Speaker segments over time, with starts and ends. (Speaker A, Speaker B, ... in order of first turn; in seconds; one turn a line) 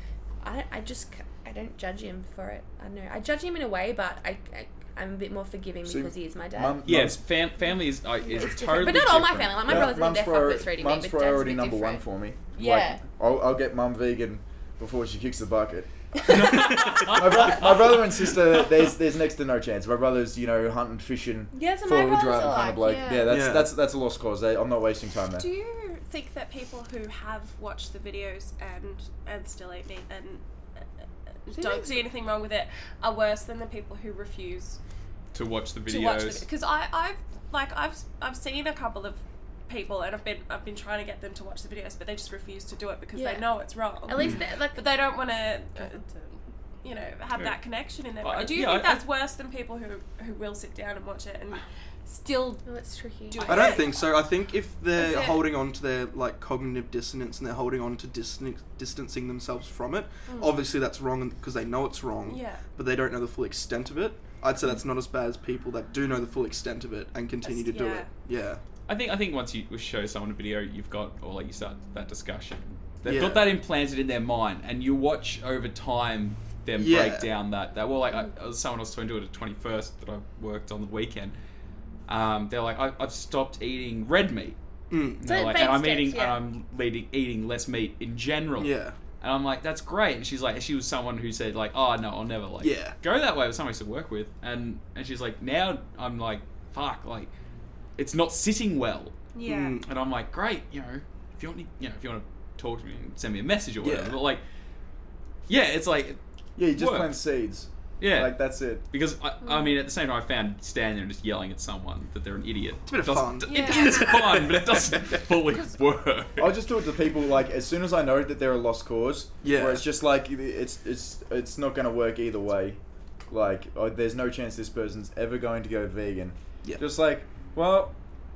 Speaker A: 0.4-6.8
Speaker B: 5.8-7.2
Speaker C: 6.8-9.8
Speaker A: 8.3-13.0
Speaker B: 9.6-25.5
Speaker C: 16.3-18.1
Speaker D: 16.5-17.1
Speaker A: 21.5-23.3
Speaker E: 22.9-23.3
Speaker D: 23.3-23.7
Speaker E: 25.4-30.4
Speaker E: 31.4-34.8
Speaker A: 31.5-32.0
Speaker C: 35.3-36.5
Speaker E: 35.9-52.6
Speaker A: 43.1-43.5
Speaker A: 44.0-44.9
Speaker C: 48.2-49.0
Speaker A: 52.6-53.8
Speaker E: 53.3-54.2
Speaker C: 53.4-53.8
Speaker D: 53.5-68.6
Speaker E: 55.0-55.5
Speaker E: 60.3-60.6
Speaker E: 62.3-62.6
Speaker E: 67.4-68.1
Speaker C: 68.9-81.4
Speaker D: 73.0-73.4
Speaker D: 76.8-77.3
Speaker C: 82.1-84.6
Speaker D: 84.9-85.2
Speaker C: 85.2-97.3
Speaker A: 85.2-86.4
Speaker D: 88.6-89.0
Speaker D: 92.6-93.0
Speaker C: 98.0-99.2
Speaker E: 99.3-99.8
Speaker D: 99.5-99.8
Speaker C: 99.8-104.4
Speaker D: 103.8-104.2
Speaker C: 105.5-107.2
Speaker B: 106.5-108.8
Speaker C: 108.0-116.5
Speaker E: 109.4-109.7
Speaker D: 112.9-115.4
Speaker E: 113.5-114.5
Speaker A: 113.5-113.9
Speaker B: 116.4-128.0
Speaker D: 119.4-119.9